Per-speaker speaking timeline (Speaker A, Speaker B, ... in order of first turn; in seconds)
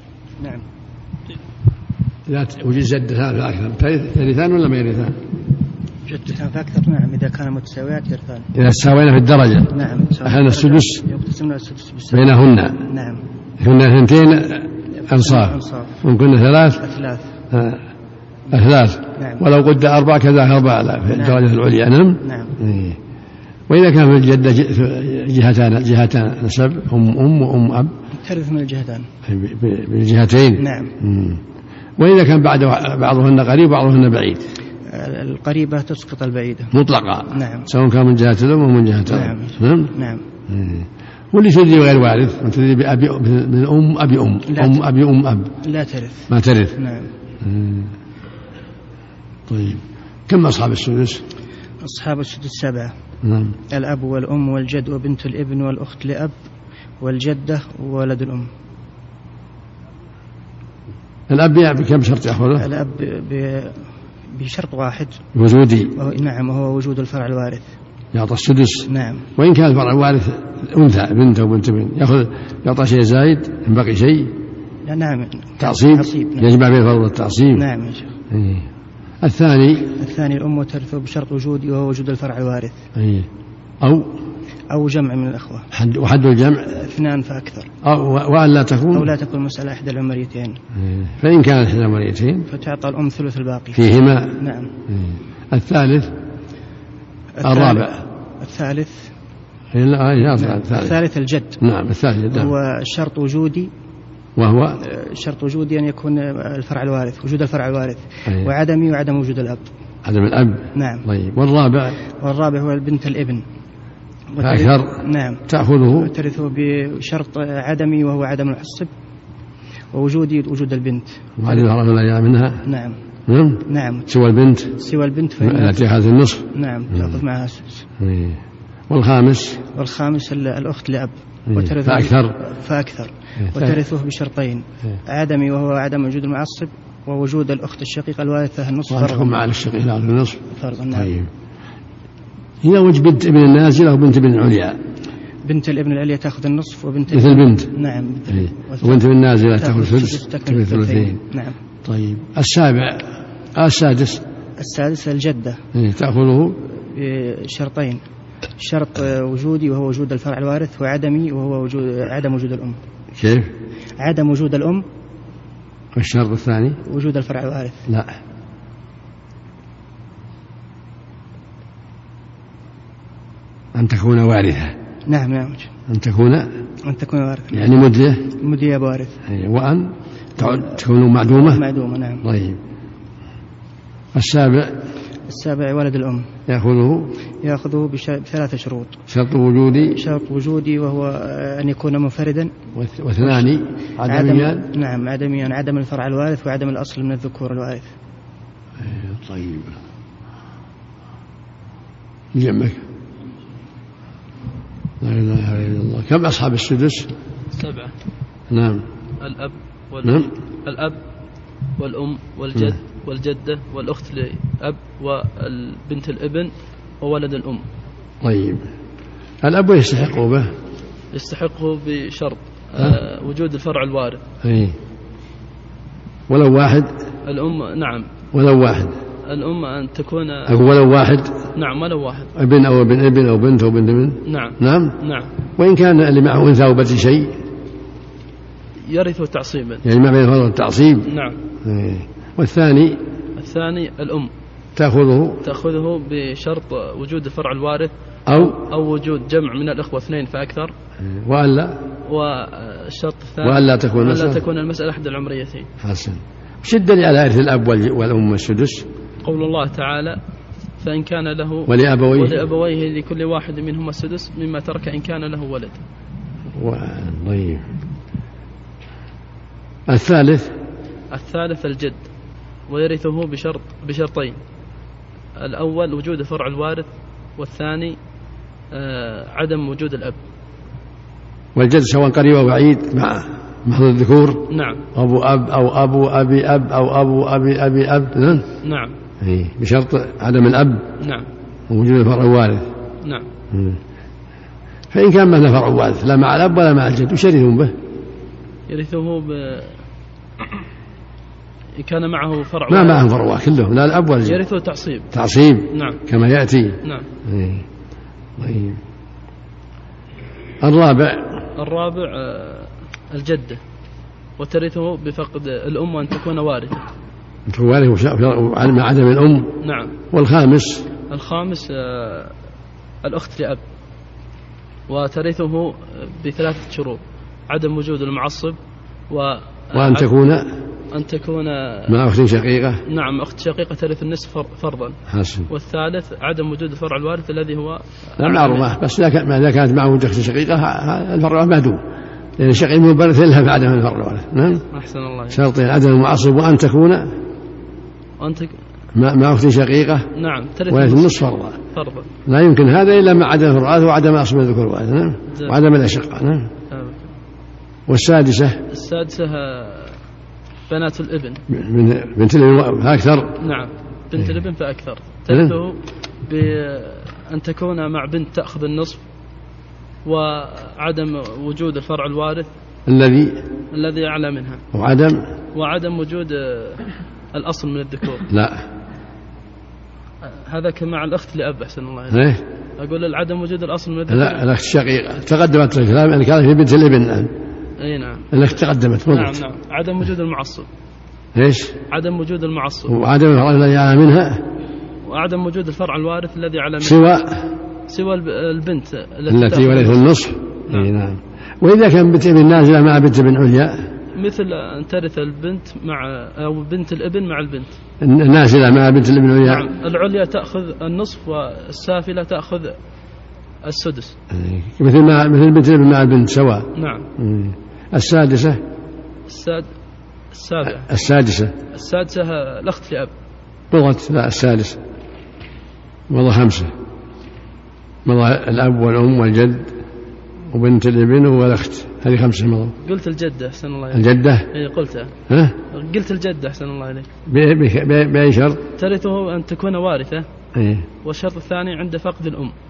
Speaker A: 0.4-0.7, 6.1-8.5, 9.7-13.2, 14.9-16.0, 16.8-17.3, 19.1-19.4, 21.1-21.4, 22.2-22.6, 28.1-29.1, 30.6-30.9, 34.9-36.7, 37.3-37.7, 39.1-40.2, 44.5-44.9, 45.6-47.1, 51.8-52.9, 53.7-56.3, 57.0-58.5, 62.6-65.2, 66.0-67.7, 68.9-69.3, 74.8-76.6, 77.5-78.1, 80.0-82.8, 84.7-85.7, 86.8-87.7, 88.9-90.6, 92.5-93.8, 94.4-94.7, 97.4-99.1, 100.3-101.6, 102.3-103.7, 104.8-109.7, 110.7-111.1, 112.1-113.4, 114.3-118.9, 119.9-121.7, 122.6-123.0, 123.7-124.1, 124.8-125.9, 126.5-127.8, 129.8-139.4, 140.5-141.1, 145.4-151.6, 154.6-155.6, 156.7-158.0, 158.6-162.8, 164.0-164.9, 166.8-167.9, 175.1-175.7, 176.9-177.7, 178.4-179.2, 181.3-182.2, 185.3-186.3, 187.4-189.0, 189.9-192.5, 193.2-193.5, 194.1-197.9
Speaker B: 2.3-5.2, 8.5-11.1, 12.1-12.8, 13.6-16.8, 17.5-17.8, 18.5-23.0, 23.7-27.9, 29.2-31.4, 32.0-34.5, 36.7-39.9, 40.5-45.5, 46.3-46.8, 47.4-47.9, 49.5-51.2, 53.2-53.6, 61.3-62.6, 65.3-66.0, 68.1-74.3, 75.6-77.7, 78.3-78.7, 79.2-80.0, 83.0-83.3, 83.8-84.2, 85.7-86.8, 87.8-89.1, 90.8-92.5, 93.8-94.4, 94.9-96.2, 97.4-98.0, 99.7-101.0, 101.6-102.5, 104.4-104.8, 110.0-112.0, 114.4-116.1, 121.4-122.6, 123.3-124.8, 125.4-127.2, 128.0-129.6, 131.5-132.4, 133.4-133.7, 138.9-140.4, 140.9-141.3, 142.6-144.8, 147.1-147.7, 148.3-151.2, 151.8-154.2, 155.7-156.6, 163.2-163.5, 165.9-166.8, 167.9-168.2, 173.8-174.8, 175.9-176.5, 177.5-178.3, 179.3-181.6, 182.2-182.6, 184.1-184.8, 186.5-187.2, 189.1-190.0, 192.7-194.7, 198.8-199.8, 202.3-202.8, 205.0-207.1, 208.5-208.9, 210.0-210.3, 218.2-218.7, 219.4-220.5, 224.4-224.8, 226.3-226.9, 228.3-229.0, 230.5-231.5, 232.3-235.0, 235.5-237.4, 239.8-241.1, 241.6-243.0, 244.8-245.4, 248.3-248.6, 251.0-251.8, 253.4-254.4, 255.8-258.9, 261.7-262.4, 266.6-267.7, 269.9-270.6, 281.6-288.4, 289.2-290.9, 291.7-292.7, 293.5-293.8, 294.9-297.7, 302.7-304.4, 305.1-307.7, 308.4-308.8, 310.6-311.5, 317.5-319.6, 320.1-320.9, 329.7-330.6, 331.9-332.8, 335.1-335.5, 338.2-341.8, 342.4-344.6, 345.3-347.2, 348.9-350.1, 350.7-351.6, 352.3-356.5, 357.9-358.6, 361.5-363.4, 365.3-365.6, 372.9-373.4, 374.7-375.3, 378.3-378.7, 382.1-382.4, 384.1-387.3, 388.3-389.4, 391.4-391.8, 392.9-394.5, 396.8-397.6, 399.3-403.9, 408.0-409.7, 414.3-418.6, 420.7-421.6, 423.7-424.8, 426.1-426.7, 428.1-429.8, 430.5-432.8, 433.9-434.5, 435.3-435.6, 437.3-438.6, 440.5-440.9
Speaker C: 207.5-207.9, 209.2-211.0, 211.8-217.7, 221.1-224.2, 227.2-228.1, 229.2-230.6, 231.6-232.3, 234.3-235.3, 238.9-239.8, 241.1-241.4, 243.4-244.3, 245.4-250.8, 252.1-255.7, 259.2-260.2, 260.8-265.8, 271.1-272.1, 272.7-274.4, 275.4-278.0, 278.7-280.2, 284.5-284.8, 288.6-289.0, 291.0-291.3, 293.0-293.3, 298.7-299.8, 301.8-303.1, 304.3-305.1, 305.7-306.0, 311.6-313.6, 314.4-316.9, 319.6-319.9, 321.1-322.4, 323.0-323.6, 324.9-328.6, 329.1-330.1, 330.9-332.0, 332.9-335.0, 335.5-338.7, 344.7-345.4, 348.2-348.6, 350.1-351.2, 351.7-352.1, 356.7-357.1, 358.7-360.0, 360.7-361.4, 363.4-369.0, 370.1-372.5, 373.7-374.6, 375.5-378.3, 380.2-382.2, 382.8-384.4, 387.8-388.3, 389.1-390.7, 391.9-392.9, 395.0-397.1, 397.8-400.1, 404.1-407.8, 409.4-412.8, 413.6-414.1, 416.8-417.1, 419.3-419.7, 420.3-420.9, 421.7-423.1, 432.8-435.1, 435.7-437.1, 438.8-440.3, 441.0-442.6